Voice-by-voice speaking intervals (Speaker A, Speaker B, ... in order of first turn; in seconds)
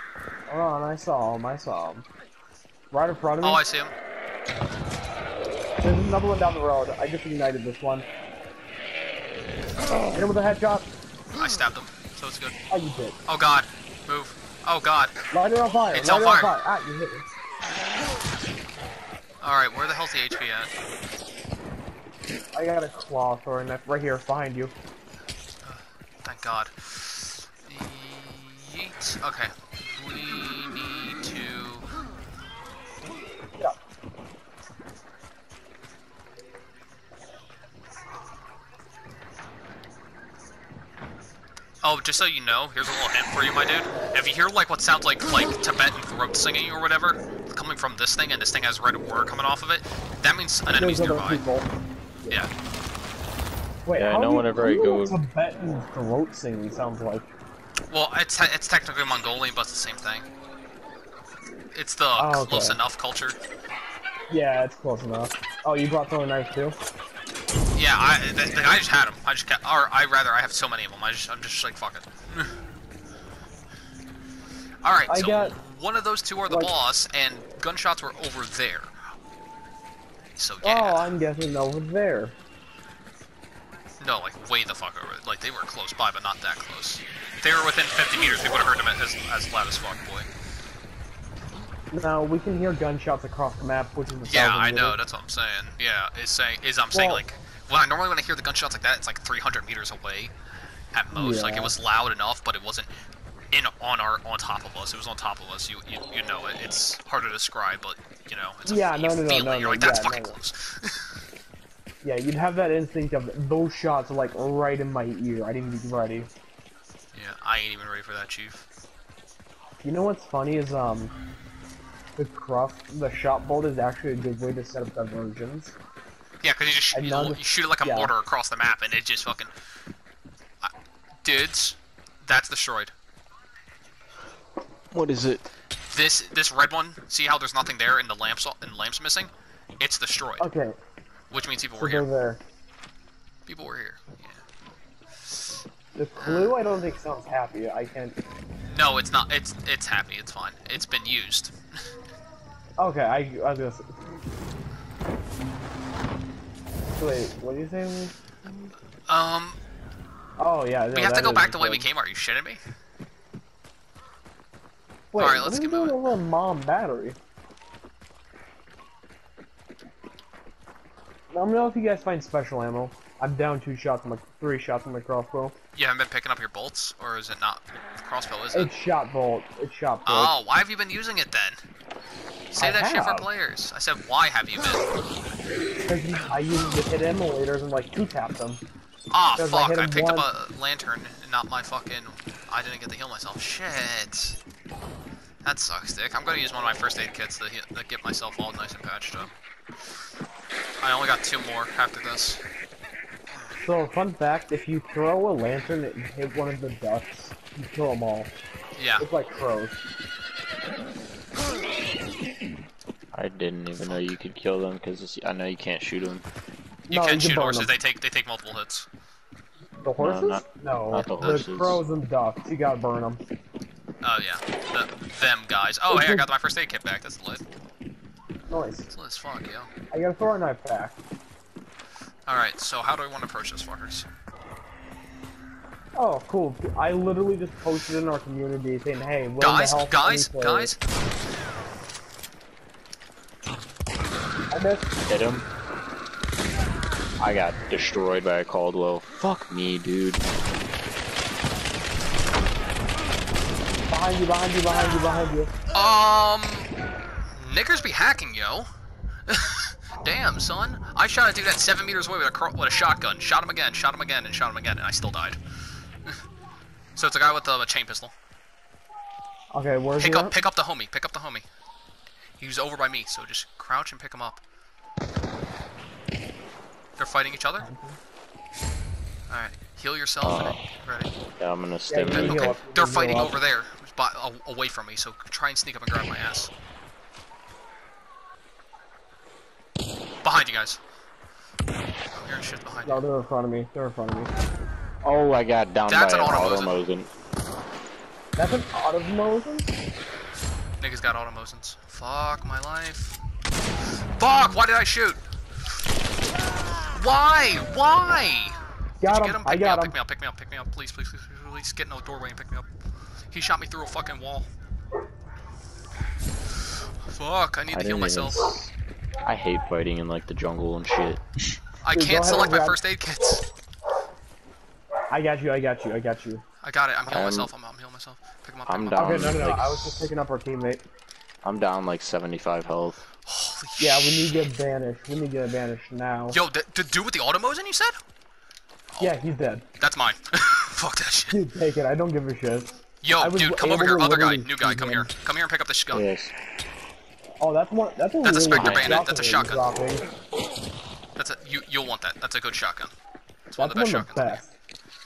Speaker A: 0.5-2.0, 2.9-3.6, 5.8-8.1, 10.1-10.9, 12.7-13.2, 15.3-17.3, 22.5-24.7, 50.7-51.7, 53.9-57.3, 62.2-62.8, 64.3-66.8, 75.1-75.5, 80.6-82.3, 91.9-95.0, 96.9-97.2, 101.1-101.7, 108.7-110.3, 112.0-116.3, 119.8-121.1, 122.2-125.7, 126.9-128.1, 140.4-140.8, 141.8-142.4, 146.0-148.2, 152.8-153.9, 157.0-158.1, 160.4-161.9, 165.1-167.2, 171.3-175.6, 178.5-180.3, 182.6-183.3, 185.9-188.6, 189.4-190.3, 203.6-208.3, 209.0-209.8, 216.9-217.7, 219.8-223.2, 225.9-226.2, 228.5-228.9, 229.9-231.0, 236.0-240.7, 244.5-244.9, 253.9-255.5, 269.5-270.4, 277.6-278.0, 281.9-283.4, 292.9-294.3, 298.4-299.8, 309.0-309.9, 321.9-322.8, 325.1-326.4, 329.0-330.8, 333.8-336.4, 339.0-339.6, 341.3-345.1, 347.4-350.0, 353.6-354.5
Speaker B: 3.4-4.0, 11.3-12.6, 13.3-15.2, 15.9-16.5, 19.4-20.7, 25.6-31.9, 41.8-51.4, 57.9-60.3, 61.7-63.4, 67.8-72.5, 74.8-79.0, 80.4-81.1, 84.0-90.3, 94.3-100.3, 100.9-102.9, 103.5-111.1, 117.1-118.6, 126.4-129.5, 131.2-132.9, 135.9-140.5, 141.3-142.1, 143.5-144.4, 146.2-146.6, 148.7-151.6, 159.1-159.6, 160.9-162.6, 165.2-166.1, 175.8-178.7, 180.1-181.6, 182.5-185.1, 189.1-194.4, 195.4-199.3, 200.8-202.4, 208.8-209.1, 216.9-218.9, 224.0-227.4, 228.9-229.7, 232.3-234.1, 239.4-240.8, 255.7-256.7, 257.3-258.7, 259.3-265.4, 267.0-268.1, 270.0-271.4, 272.4-274.4, 277.0-277.7, 279.3-281.1, 282.1-286.5, 290.2-290.8, 292.1-293.0, 295.9-296.7, 300.8-303.2, 304.2-305.2, 306.8-312.7, 313.3-314.5, 317.1-318.6, 321.8-323.4, 326.6-329.4, 333.3-334.5, 336.3-338.0, 339.8-341.4, 343.0-346.1, 348.2-349.8, 351.2-352.9, 353.5-354.4
Speaker C: 9.8-10.3, 54.0-55.2, 134.9-135.5, 213.1-216.3, 220.0-221.8, 245.1-245.5, 247.2-250.2, 280.2-280.6, 281.4-282.6, 295.0-297.1, 317.7-318.7, 319.2-321.2, 327.1-327.5, 328.7-330.1, 331.4-333.1, 345.9-346.3, 348.5-349.0